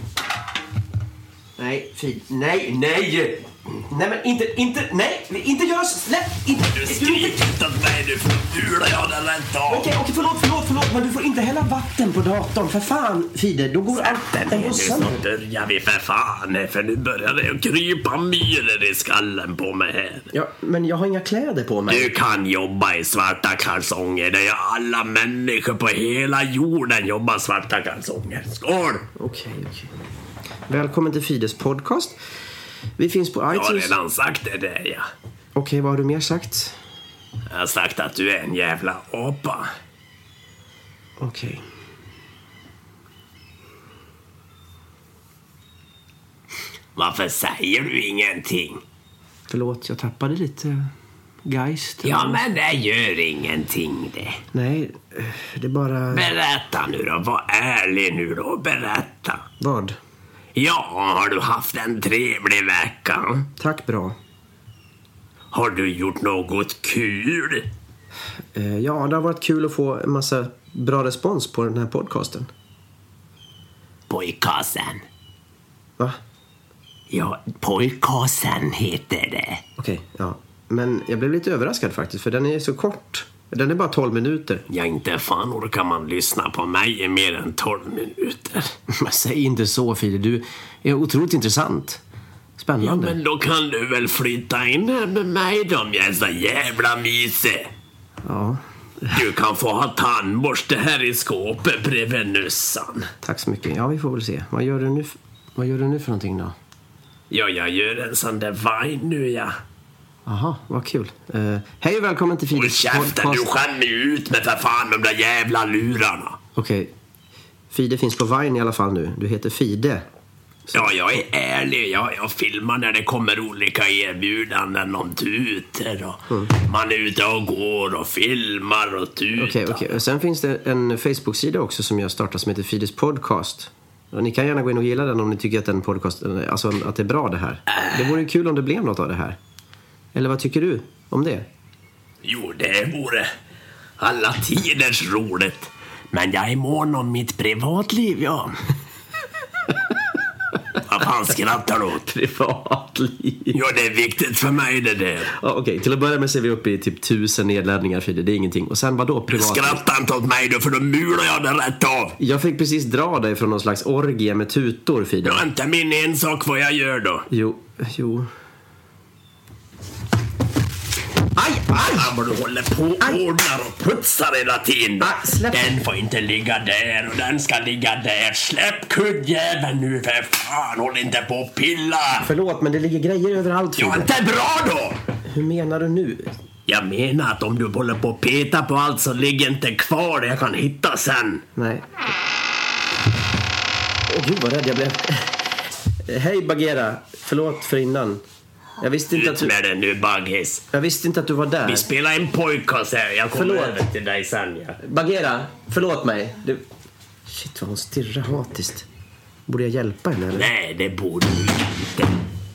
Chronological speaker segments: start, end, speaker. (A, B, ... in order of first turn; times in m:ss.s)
0:01.6-0:07.4 A
0:06.7-0:09.9 B
0:09.7-0:15.2 A
0:13.9-0:20.3 B
0:20.3-0:22.1 A
0:21.9-0:29.1 B
0:29.1-0:29.9 A
0:30.7-0:32.2 A
0:33.0-0:33.9 A
0:33.5-0:35.1 B
0:35.5-0:36.8 A
0:37.5-0:39.7 B
0:41.2-0:41.6 A
0:47.0-0:48.8 B
0:49.5-0:50.9 A
0:51.4-0:52.4 A
0:52.0-0:54.4 B
0:54.5-0:56.3 A
0:56.1-0:59.4 B
0:59.6-1:00.0 A
1:00.5-1:03.5 B
1:03.6-1:04.2 A
1:05.5-1:07.7 B
1:08.5-1:12.5 A
1:14.1-1:15.0 B
1:17.1-1:19.6 B
1:19.8-1:24.6 A
1:24.7-1:28.8 B
1:28.9-1:32.0 A
1:32.6-1:33.2 A
1:32.8-1:37.7 B
1:38.2-1:39.2 A
1:39.1-1:43.1 B
1:43.2-1:46.6 A
1:47.3-1:49.6 B
1:50.2-1:53.5 A
1:52.5-1:56.4 B
1:56.6-1:56.9 A
1:57.7-2:00.0 A
2:00.7-2:10.0 B
2:09.4-2:19.4 A
2:20.1-2:21.5 A
2:22.2-2:23.3 B
2:24.0-2:28.6 B
2:30.8-2:32.0 B
2:32.0-2:33.6 A
2:33.5-2:35.3 B
2:35.3-2:39.8 A
2:39.3-2:42.2 B
2:42.2-2:45.4 A
2:45.2-2:47.3 B
2:47.3-2:48.3 A
2:51.4-2:52.1 A
2:51.7-3:02.3 B
2:55.0-2:55.7 A
3:02.2-3:04.1 A
3:03.8-3:05.0 B
3:05.3-3:06.3 A
3:06.7-3:11.4 B
3:11.6-3:11.8 A
3:14.1-3:15.4 A
3:16.0-3:18.2 A
3:18.8-3:19.5 A
3:19.1-3:20.7 B
3:20.7-3:21.8 A
3:21.6-3:24.8 B
3:23.3-3:23.8 A
3:24.8-3:26.6 A
3:27.2-3:28.9 A
3:29.5-3:30.5 A
3:30.3-3:32.2 B